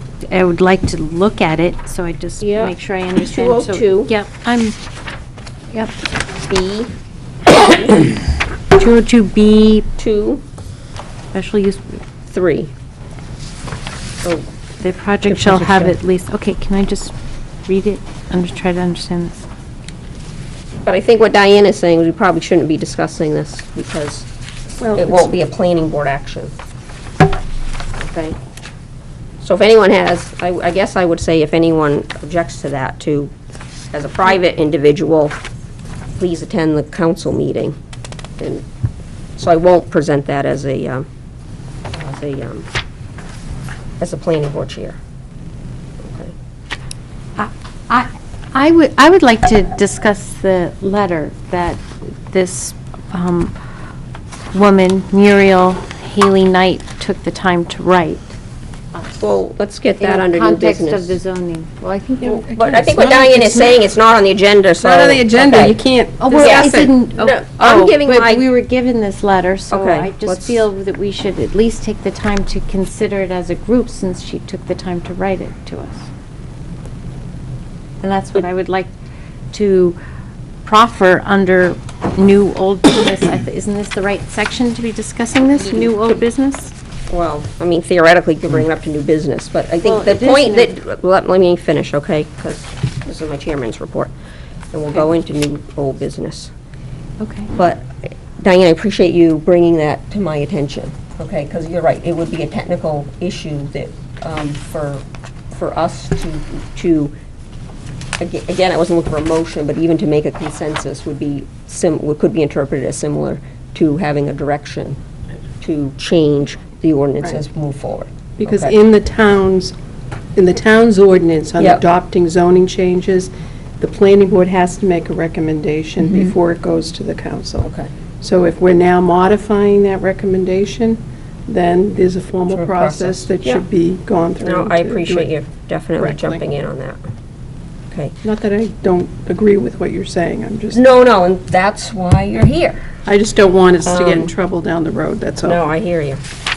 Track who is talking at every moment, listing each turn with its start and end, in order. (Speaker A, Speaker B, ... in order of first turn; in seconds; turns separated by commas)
Speaker A: 0.2-4.8, Speaker B: 2.4-4.1, Speaker B: 6.5-6.9, Speaker A: 8.7-9.8, Speaker B: 10.0-10.4, Speaker A: 11.3-12.0, Speaker B: 12.3-12.7, Speaker A: 14.8-17.1, Speaker B: 15.2-15.9, Speaker A: 17.7-19.4, Speaker B: 20.8-24.3, Speaker C: 24.8-25.3, Speaker B: 24.9-26.5, Speaker B: 28.1-28.4, Speaker B: 29.4-33.3, Speaker B: 33.9-35.4, Speaker B: 36.2-37.8, Speaker B: 38.4-38.6, Speaker B: 39.4-41.1, Speaker B: 41.9-42.7, Speaker B: 44.0-45.0, Speaker B: 46.0-46.3, Speaker A: 47.4-53.5, Speaker A: 54.5-58.3, Speaker B: 59.2-61.2, Speaker A: 60.0-63.8, Speaker B: 62.2-65.8, Speaker C: 64.8-66.9, Speaker A: 66.2-76.1, Speaker B: 66.3-68.4, Speaker B: 69.7-70.6, Speaker A: 78.0-78.9, Speaker A: 79.5-80.0, Speaker A: 80.6-86.7, Speaker B: 85.6-86.1, Speaker B: 87.1-94.1, Speaker A: 89.8-90.7, Speaker B: 94.7-96.5, Speaker A: 97.2-97.5, Speaker B: 97.5-107.1, Speaker B: 108.2-115.0, Speaker B: 115.6-118.7, Speaker C: 118.4-119.7, Speaker C: 120.3-127.7, Speaker B: 127.6-127.9, Speaker C: 128.2-135.3, Speaker B: 132.4-133.6, Speaker B: 134.4-137.0, Speaker C: 136.0-136.4, Speaker C: 138.2-140.8, Speaker B: 140.7-142.8, Speaker C: 143.0-145.6, Speaker B: 143.8-144.3, Speaker B: 145.4-146.2